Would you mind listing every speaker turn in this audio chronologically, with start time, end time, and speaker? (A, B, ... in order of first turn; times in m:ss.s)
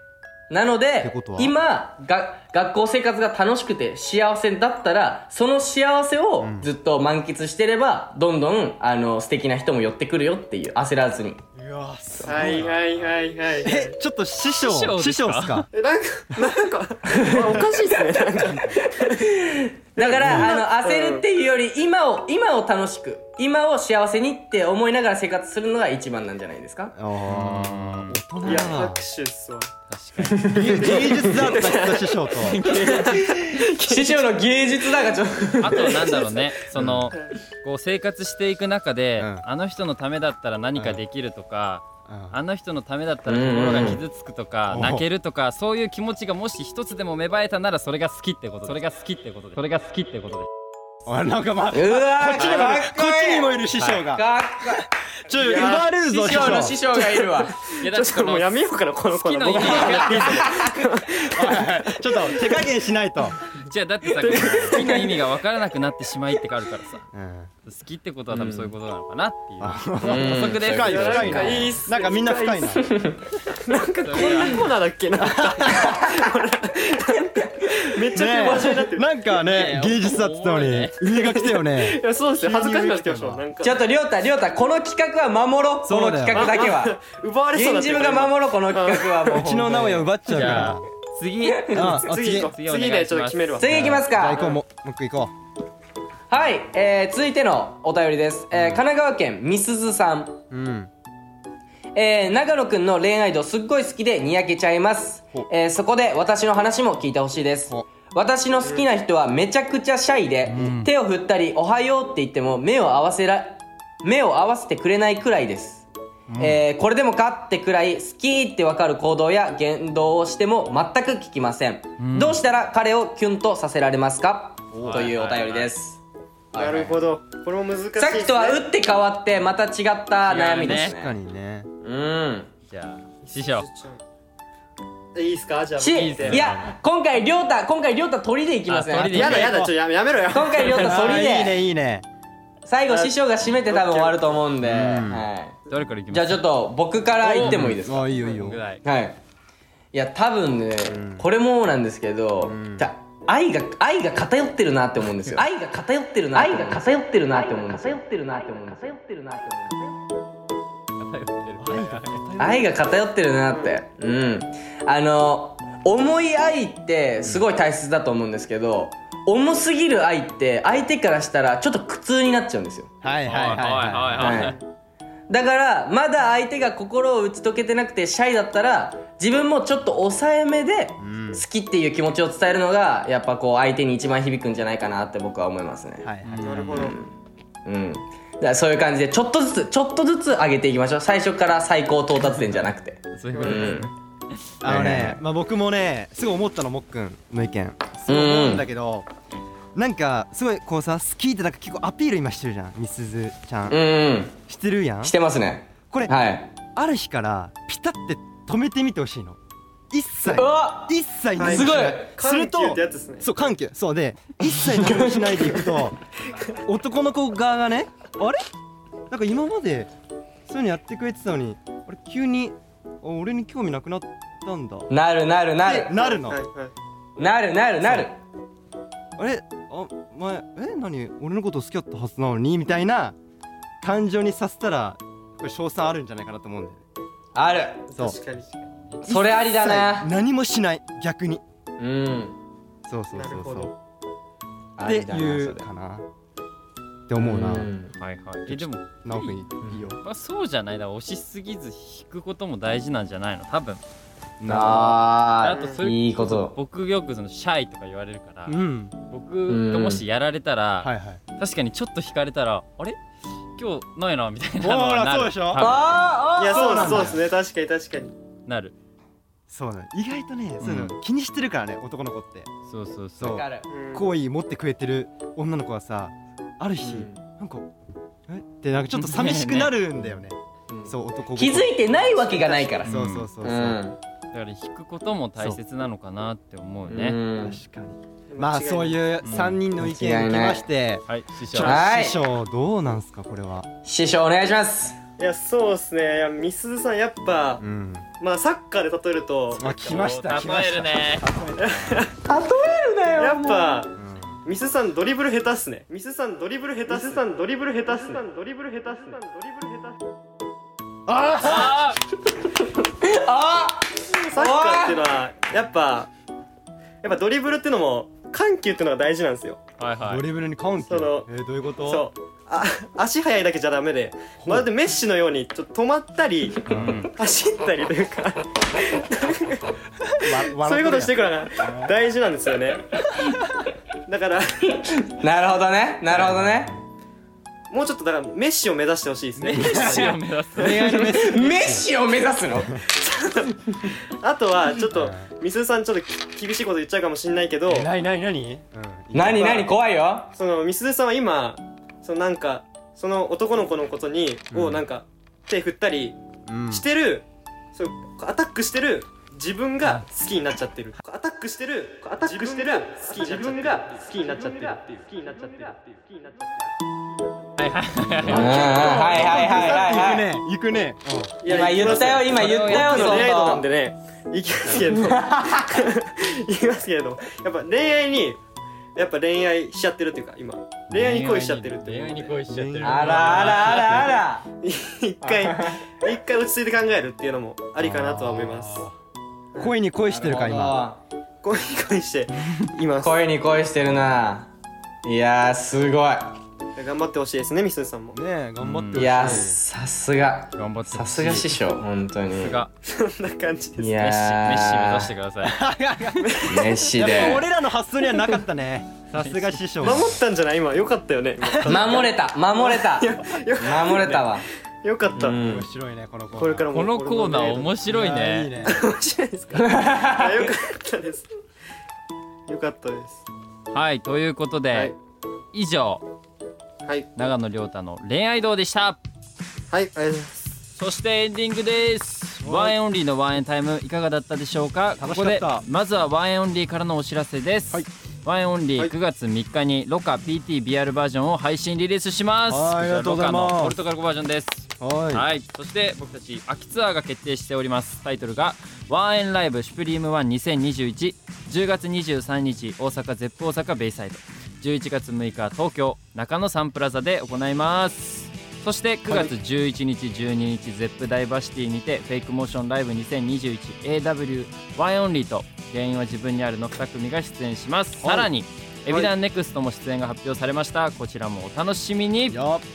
0:00.5-0:11.4 A
0:01.0-0:01.5 B
0:06.4-0:06.7 B
0:11.6-0:12.8 B
0:12.2-0:14.0 C
0:12.4-0:12.8 D
0:13.6-0:15.7 B
0:14.5-0:15.6 D
0:15.7-0:19.3 C
0:17.1-0:18.1 A
0:18.8-0:26.9 A
0:20.0-0:21.2 C
0:20.2-0:20.5 B
0:26.9-0:29.0 B
0:27.3-0:28.2 D
0:28.4-0:29.7 C
0:29.9-0:30.6 D
0:30.4-0:30.8 A
0:30.5-0:32.7 B
0:30.5-0:34.3 C
0:32.4-0:33.1 D
0:33.0-0:36.1 A
0:35.6-0:50.5 D
0:35.9-0:36.3 C
0:36.7-0:37.1 B
0:39.2-0:39.4 B
0:42.0-0:42.4 B
0:43.2-0:44.0 A
0:44.7-0:45.1 B
0:51.0-0:57.0 B
0:51.7-0:57.6 A
0:53.7-0:54.0 D
0:55.4-0:55.8 C
0:56.9-1:02.7 C
0:57.8-1:00.4 D
0:59.5-1:00.4 B
1:01.2-1:03.4 B
1:03.6-1:07.1 D
1:04.1-1:05.0 C
1:07.1-1:07.5 B
1:07.6-1:11.7 D
1:08.3-1:08.7 A
1:09.6-1:12.9 B
1:10.0-1:11.6 A
1:10.8-1:12.9 C
1:12.9-1:13.2 A
1:13.5-1:19.1 C
1:14.0-1:14.7 D
1:15.1-1:16.0 B
1:18.1-1:23.4 B
1:19.4-1:21.1 D
1:21.1-1:23.8 C
1:23.6-1:27.0 A
1:25.8-1:26.6 B
1:26.3-1:30.0 C
1:27.5-1:29.7 A
1:29.3-1:30.8 B
1:30.2-1:34.0 D
1:31.6-1:32.0 A
1:31.7-1:32.5 B
1:31.8-1:34.6 C
1:33.6-1:34.5 A
1:33.7-1:35.3 B
1:36.3-1:40.4 A
1:38.5-1:38.8 B
1:40.5-1:40.9 B
1:41.9-1:55.8 A
1:50.5-1:50.9 D
1:50.5-1:50.8 B
1:56.3-1:56.6 B
1:56.4-2:06.0 A
2:02.0-2:02.4 D
2:04.7-2:05.1 B
2:04.8-2:05.7 D
2:06.5-2:07.0 A
2:06.5-2:08.6 C
2:08.0-2:11.1 A
2:10.2-2:10.9 D
2:10.7-2:11.7 B
2:11.8-2:12.5 A
2:12.7-2:13.7 D
2:13.2-2:14.0 C
2:15.1-2:16.5 C
2:15.8-2:19.7 A
2:15.9-2:16.7 D
2:16.3-2:16.7 B
2:18.7-2:19.7 D
2:19.1-2:21.3 C
2:20.3-2:21.6 A
2:20.6-2:22.0 B
2:22.6-2:25.6 A
2:22.9-2:23.1 C
2:23.6-2:24.2 C
2:24.6-2:25.2 B
2:25.7-2:26.4 D
2:26.1-2:28.2 A
2:27.2-2:27.6 D
2:27.4-2:28.6 B
2:28.2-2:28.8 D
2:28.8-2:29.2 A
2:29.9-2:39.9 A
2:30.9-2:31.2 B
2:32.4-2:32.9 B
2:36.4-2:36.7 D
2:41.0-2:42.2 D
2:41.6-2:42.8 B
2:42.4-2:52.9 A
2:43.5-2:43.8 C
2:53.0-2:54.5 B
2:53.2-2:54.6 D
2:54.1-2:54.6 A
2:54.3-2:54.6 C
2:55.3-3:06.1 A
3:01.0-3:01.4 B
3:06.0-3:06.8 B
3:06.2-3:06.9 D
3:06.4-3:06.9 C
3:06.6-3:07.1 A
3:07.6-3:13.9 A
3:13.1-3:14.4 D
3:13.3-3:13.8 C
3:14.6-3:15.2 A
3:14.6-3:19.1 B
3:18.1-3:18.7 A
3:19.7-3:23.8 B
3:23.7-3:24.3 A
3:24.5-3:25.2 B
3:25.0-3:26.5 A
3:26.7-3:29.4 B
3:29.9-3:36.0 B
3:30.3-3:32.1 A
3:31.4-3:33.3 C
3:34.6-3:35.6 A
3:36.6-3:38.4 B
3:39.1-3:39.9 B
3:40.5-3:44.9 B
3:44.9-3:46.0 A
3:45.6-3:46.4 B
3:45.8-3:46.7 C
3:47.2-3:48.2 A
3:47.8-3:48.1 B
3:49.2-3:53.2 B
3:53.8-3:56.8 B
3:57.3-3:57.8 A
3:57.8-3:58.5 C
3:58.4-3:59.0 D
3:59.0-4:01.4 B
3:59.0-4:00.1 A
4:01.8-4:02.4 A
4:02.8-4:03.7 B
4:03.1-4:03.7 C
4:04.8-4:05.6 A
4:04.8-4:06.0 B
4:07.1-4:07.7 B
4:07.2-4:07.9 A
4:08.0-4:09.4 D
4:08.5-4:10.0 B
4:09.6-4:09.8 A
4:10.0-4:13.8 D
4:14.4-4:15.1 B
4:14.4-4:16.6 A
4:15.4-4:18.6 D
4:15.5-4:15.8 C
4:18.5-4:18.9 B
4:19.1-4:23.0 D
4:19.5-4:20.0 A
4:20.8-4:21.2 B
4:23.6-4:26.0 D
4:24.6-4:25.8 B
4:25.6-4:27.2 A
4:26.4-4:28.1 C
4:26.4-4:27.2 B
4:28.4-4:28.7 D
4:29.5-4:32.5 B
4:30.6-4:30.9 D
4:32.7-4:33.5 D
4:33.2-4:37.7 B
4:33.2-4:33.7 A
4:33.7-4:34.1 C
4:36.8-4:37.2 A
4:38.3-4:41.9 B
4:38.9-4:39.8 D
4:40.7-4:44.0 A
4:42.0-4:42.8 C
4:42.8-4:43.8 B
4:42.8-4:43.3 D
4:44.3-4:47.2 D
4:46.9-4:47.6 A
4:47.4-4:53.7 B
4:48.3-4:49.2 C
4:49.2-4:49.6 D
4:49.8-4:50.6 A
4:51.1-4:51.8 D
4:51.5-4:52.2 A
4:53.8-4:55.0 A
4:55.2-4:57.6 C
4:57.6-4:58.1 B
4:58.2-4:59.7 C
4:59.5-5:02.1 B
4:59.7-5:01.2 D
5:01.6-5:02.1 C
5:02.2-5:03.8 A
5:03.2-5:10.0 C
5:03.9-5:04.4 B
5:06.9-5:07.2 B
5:11.1-5:11.8 B
5:11.4-5:12.0 D
5:11.5-5:11.8 A
5:13.0-5:15.0 A
5:14.2-5:16.1 C
5:17.0-5:19.6 C
5:19.8-5:20.2 D
5:20.0-5:22.1 B
5:20.8-5:21.3 C
5:21.8-5:29.6 C
5:24.4-5:24.7 B
5:26.7-5:27.0 B
5:26.7-5:27.1 D
5:30.1-5:31.9 B
5:30.4-5:33.0 C
5:33.2-5:33.6 B
5:34.1-5:34.9 C
5:34.8-5:36.7 A
5:36.1-5:36.8 B
5:37.7-5:40.2 C
5:39.4-5:41.1 D
5:39.4-5:41.9 B
5:40.7-5:42.7 A
5:42.9-5:47.9 C
5:44.9-5:45.3 B
5:47.7-5:49.7 B
5:49.1-5:50.3 A
5:49.3-5:49.7 C
5:50.3-6:06.7 C
5:54.5-5:54.8 B
5:56.4-5:56.8 B
6:02.2-6:04.4 B
6:07.6-6:08.6 D
6:08.1-6:11.4 B
6:08.2-6:10.4 A
6:08.4-6:10.0 C
6:11.4-6:18.4 C
6:11.4-6:13.6 A
6:12.2-6:13.4 D
6:14.7-6:15.9 A
6:18.9-6:22.4 C
6:20.9-6:24.1 D
6:22.5-6:24.1 B
6:22.8-6:24.4 A
6:24.6-6:28.9 C
6:25.2-6:26.0 A
6:27.8-6:28.7 B
6:28.3-6:28.9 D
6:29.6-6:30.8 B
6:30.1-6:31.0 A
6:31.4-6:33.2 C
6:33.0-6:34.5 A
6:35.0-6:36.3 A
6:36.8-6:38.2 C
6:38.1-6:39.6 B
6:38.6-6:39.3 D
6:38.9-6:42.6 A
6:40.5-6:41.5 D
6:42.4-6:42.7 D
6:42.8-6:44.0 C
6:43.8-6:45.1 A
6:44.0-6:45.6 D
6:45.4-6:50.2 B
6:46.2-6:46.9 C
6:46.4-6:47.4 A
6:49.1-6:50.0 D
6:49.8-6:55.4 C
6:51.4-6:51.7 B
6:51.6-6:54.4 A
6:55.1-6:55.7 A
6:55.4-6:56.7 B
6:56.3-6:57.7 C
6:56.7-6:58.5 D
6:57.8-6:58.8 B
6:58.6-7:01.3 C
6:59.6-7:00.5 A
7:02.5-7:03.2 C
7:03.7-7:04.9 D
7:05.5-7:06.0 D
7:06.8-7:07.1 C
7:07.2-7:09.0 D
7:09.7-7:10.5 C
7:10.8-7:52.4 D
7:12.4-7:12.8 B
7:15.0-7:15.6 B
7:22.5-7:23.8 B
7:24.8-7:25.2 B
7:48.0-7:48.3 B
7:52.3-7:52.6 B